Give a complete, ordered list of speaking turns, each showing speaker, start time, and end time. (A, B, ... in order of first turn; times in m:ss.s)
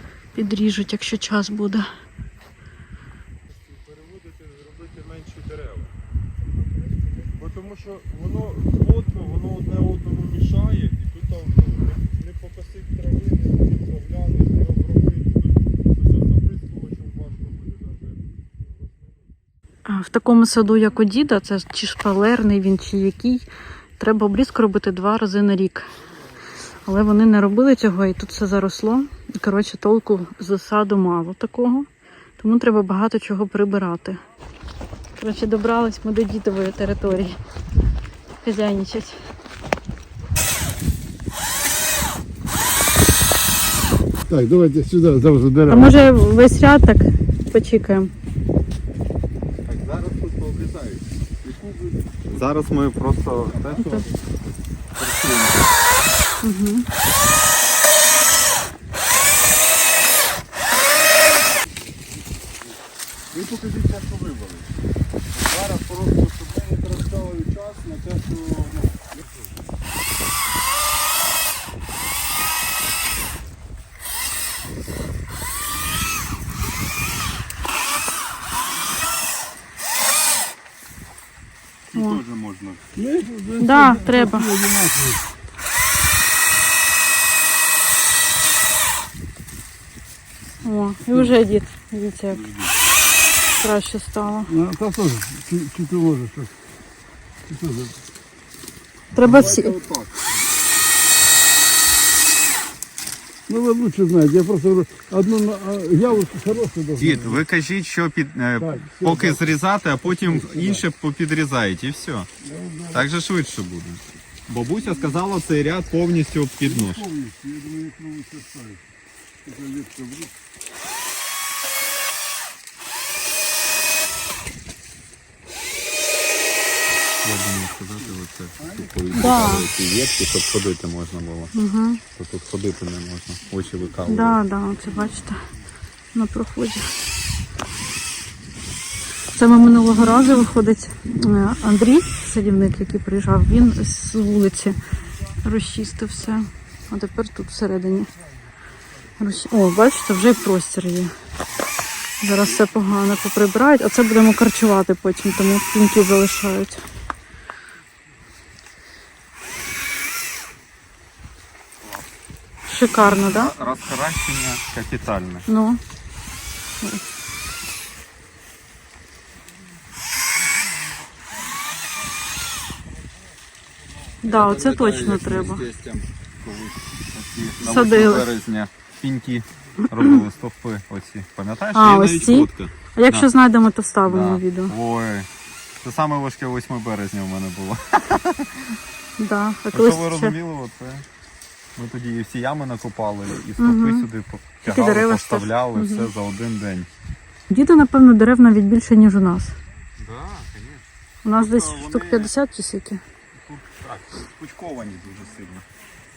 0:00.3-0:01.9 A
0:03.5-0:05.9 B
0:07.3-0:18.3 B
0:19.8-0:23.4 A
0:24.0-0:25.9 A
0:26.8-0:31.9 A
0:32.4-0:34.2 A
0:35.2-0:37.4 A
0:38.4-0:39.2 A
0:44.3-0:46.0 C
0:45.7-0:48.1 A
0:49.6-0:51.0 D
0:51.4-0:52.1 B
0:52.3-0:54.1 D
0:53.7-0:54.0 A
0:54.9-0:55.7 D
0:56.4-0:56.9 A
1:03.3-1:04.7 B
1:05.3-1:09.5 B
1:21.9-1:22.8 B
1:21.9-1:22.2 A
1:23.0-1:25.2 C
1:23.6-1:24.5 A
1:30.6-1:32.4 A
1:32.3-1:32.7 B
1:33.6-1:34.5 A
1:34.5-1:36.5 C
1:37.5-1:38.0 C
1:39.1-1:39.7 A
1:39.2-1:40.1 B
1:39.3-1:39.6 C
1:43.5-1:47.4 C
1:47.0-1:52.3 D
1:48.6-1:49.4 C
1:50.0-1:50.8 C
1:52.4-1:53.0 C
1:52.9-1:57.0 D
1:56.7-1:58.8 C
1:59.4-2:00.3 C
2:07.2-2:11.5 D
2:08.6-2:09.5 B
2:09.1-2:09.7 A
2:11.5-2:12.0 A
2:12.1-2:14.4 D
2:13.8-2:14.3 B
2:14.0-2:15.4 A
2:16.1-2:16.9 A
2:19.3-2:24.8 A
2:25.4-2:28.1 A
2:29.2-2:31.1 A
2:32.2-2:36.8 A
2:42.6-2:43.5 A
2:43.0-2:45.5 D
2:45.5-2:45.8 A
2:54.2-2:55.6 A
2:54.2-3:03.3 D
2:57.6-2:58.3 A
2:59.8-3:00.2 A
3:01.7-3:04.7 A
3:04.0-3:05.3 D
3:05.8-3:08.8 D
3:09.2-3:10.4 A
3:09.7-3:11.0 D
3:11.8-3:16.9 D
3:13.6-3:14.1 A
3:14.6-3:16.1 A
3:17.5-3:19.5 A
3:20.0-3:22.3 D
3:21.2-3:23.0 A
3:23.3-3:25.7 D